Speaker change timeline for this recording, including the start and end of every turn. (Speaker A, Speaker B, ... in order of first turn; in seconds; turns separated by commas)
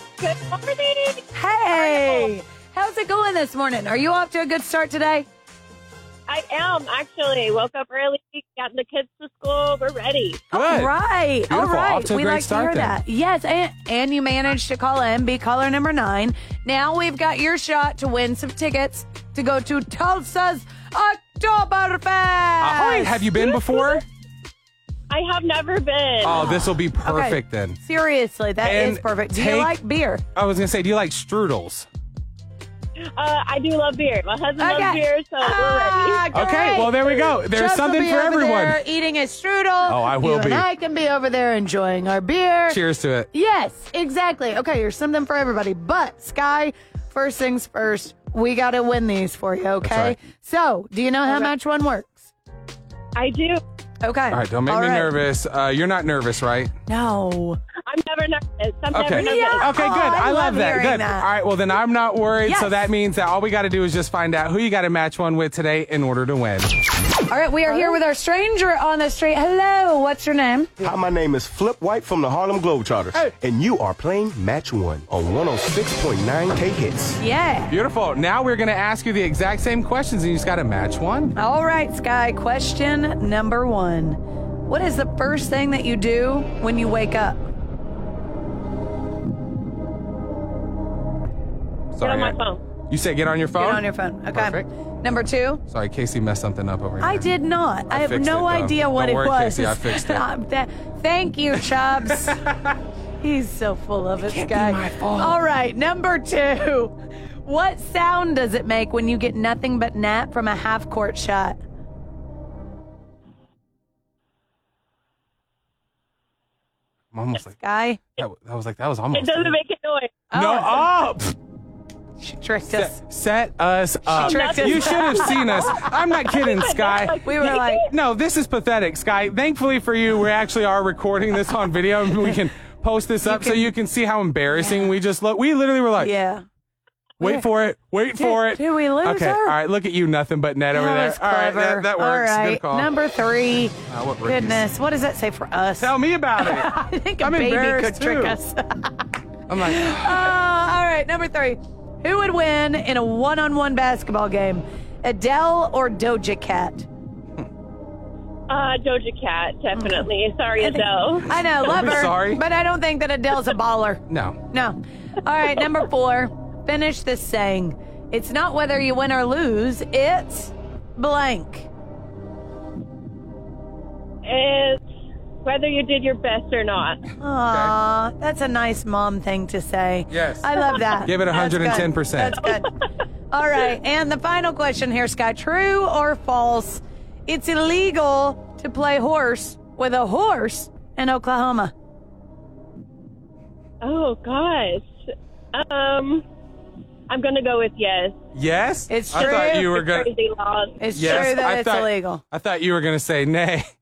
Speaker A: 0.2-2.3, Speaker B: 1.3-5.3, Speaker A: 6.3-10.4, Speaker C: 10.5-10.9, Speaker B: 10.5-23.3, Speaker C: 11.5-13.0, Speaker C: 22.6-24.0, Speaker A: 25.1-26.5, Speaker C: 26.2-27.8, Speaker B: 26.3-30.2, Speaker C: 28.6-29.7, Speaker C: 30.3-31.9, Speaker A: 33.1-36.2, Speaker B: 34.6-42.8, Speaker C: 36.3-38.8, Speaker C: 39.9-40.6, Speaker C: 42.7-43.3, Speaker B: 43.3-52.3, Speaker C: 49.8-50.2, Speaker A: 53.1-53.6, Speaker B: 54.0-55.1, Speaker C: 54.3-56.7, Speaker B: 56.9-57.6, Speaker A: 57.8-59.8, Speaker C: 58.9-66.7, Speaker B: 59.1-61.3, Speaker B: 62.4-62.9, Speaker B: 67.3-70.7, Speaker D: 70.8-77.2, Speaker B: 77.2-77.7, Speaker C: 77.7-81.3, Speaker B: 81.3-87.4, Speaker C: 91.9-92.4, Speaker A: 92.0-92.6, Speaker C: 92.9-94.7, Speaker B: 93.6-95.6, Speaker C: 95.7-97.3, Speaker B: 97.0-102.4, Speaker C: 97.9-100.2, Speaker B: 103.2-111.6, Speaker C: 104.2-105.4, Speaker C: 117.1-117.6, Speaker B: 117.5-118.0, Speaker C: 118.2-119.6, Speaker A: 119.1-120.2, Speaker B: 120.3-120.9, Speaker C: 120.3-121.3, Speaker B: 122.2-123.0, Speaker C: 122.7-136.1, Speaker B: 124.1-125.7, Speaker A: 124.1-127.8, Speaker B: 127.2-127.9, Speaker B: 133.2-133.7, Speaker B: 134.5-134.9, Speaker B: 136.0-136.4, Speaker C: 137.2-142.9, Speaker B: 137.2-137.5, Speaker B: 138.1-139.6, Speaker B: 140.7-149.0, Speaker C: 143.9-144.7, Speaker C: 145.8-148.4, Speaker C: 149.5-150.4, Speaker B: 149.6-156.9, Speaker A: 158.5-161.4, Speaker B: 160.6-171.7, Speaker C: 161.5-162.4, Speaker C: 164.1-164.4, Speaker A: 174.2-174.8, Speaker A: 175.4-177.1, Speaker B: 177.2-182.8, Speaker C: 180.1-180.5, Speaker C: 181.0-182.5, Speaker B: 183.3-191.7, Speaker A: 193.8-194.9, Speaker A: 195.5-196.2, Speaker A: 197.1-198.1, Speaker C: 198.3-200.1, Speaker B: 198.9-199.7, Speaker A: 199.1-201.3, Speaker B: 200.8-202.2, Speaker C: 200.9-203.7